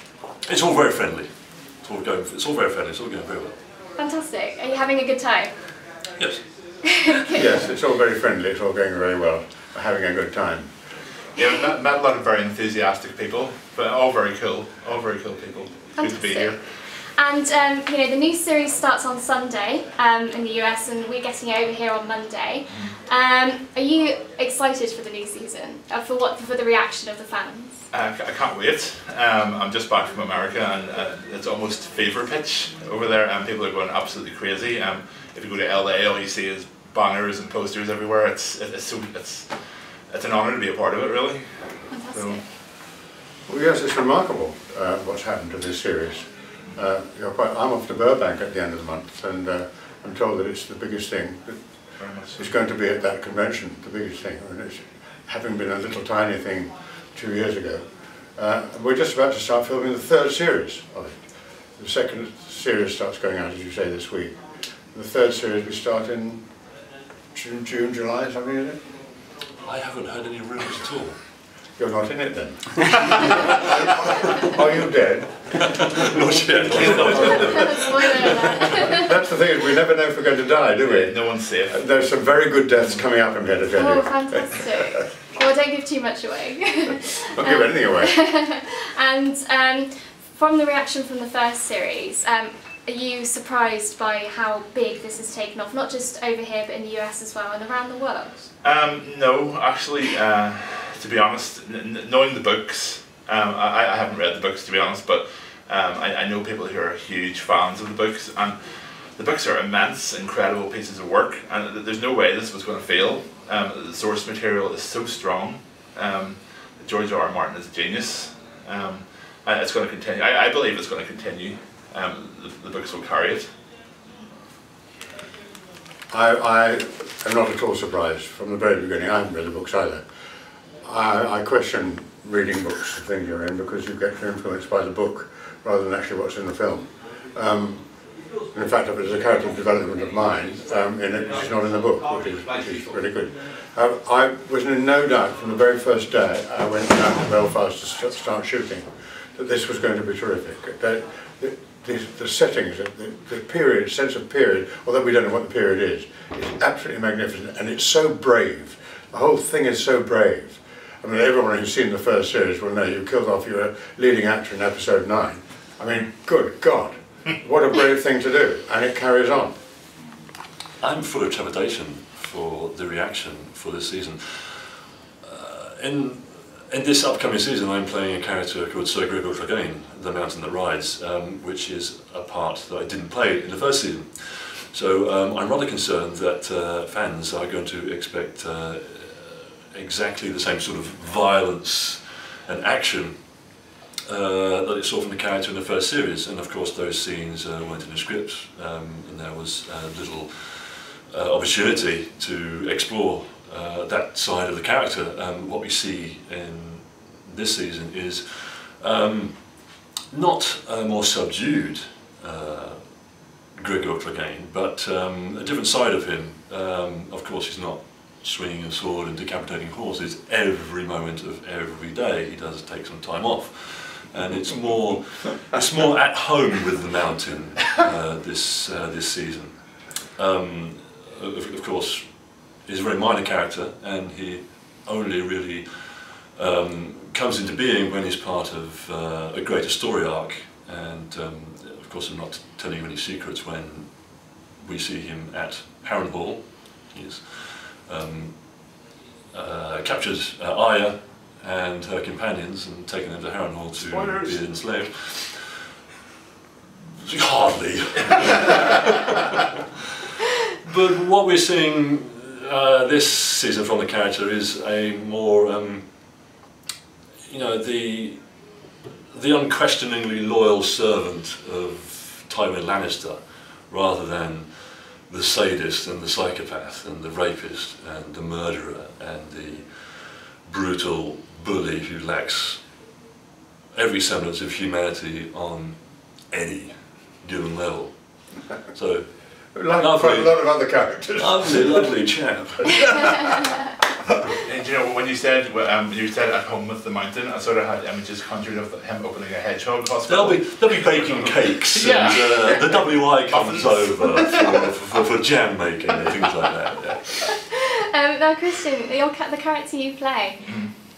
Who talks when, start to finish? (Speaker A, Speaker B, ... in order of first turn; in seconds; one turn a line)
Speaker A: 0.4-3.5
Speaker B: 3.9-5.7
Speaker B: 6.8-7.4
Speaker C: 7.3-10.7
Speaker D: 11.3-16.6
Speaker B: 16.0-27.9
Speaker D: 22.7-22.9
Speaker D: 27.9-42.4
Speaker B: 41.9-42.4
Speaker C: 43.5-51.7
Speaker D: 52.0-52.4
Speaker C: 52.3-61.2
Speaker C: 61.8-64.4
Speaker C: 64.9-66.4
Speaker C: 67.3-68.8
Speaker A: 69.6-71.2
Speaker C: 71.8-73.7
Speaker C: 74.4-77.7
Speaker A: 75.6-77.9
Speaker D: 76.7-77.6
Speaker B: 77.1-79.0
Speaker C: 79.0-84.6
Speaker D: 80.8-81.9
Speaker B: 83.7-98.5
Speaker C: 87.3-88.2
Speaker D: 98.6-123.5
Speaker C: 126.1-130.0
Speaker C: 130.8-137.9
Speaker C: 138.5-169.5
Speaker A: 170.8-193.5
Speaker A: 194.1-248.8
Speaker A: 249.3-255.6
Speaker D: 253.8-254.4
Speaker A: 257.0-259.4
Speaker A: 260.6-266.3
Speaker A: 267.2-268.5
Speaker A: 269.1-282.7
Speaker A: 283.7-293.2
Speaker C: 289.5-291.9
Speaker C: 292.8-293.5
Speaker D: 294.4-304.4
Speaker A: 300.1-307.4
Speaker B: 307.3-310.6
Speaker D: 310.4-310.7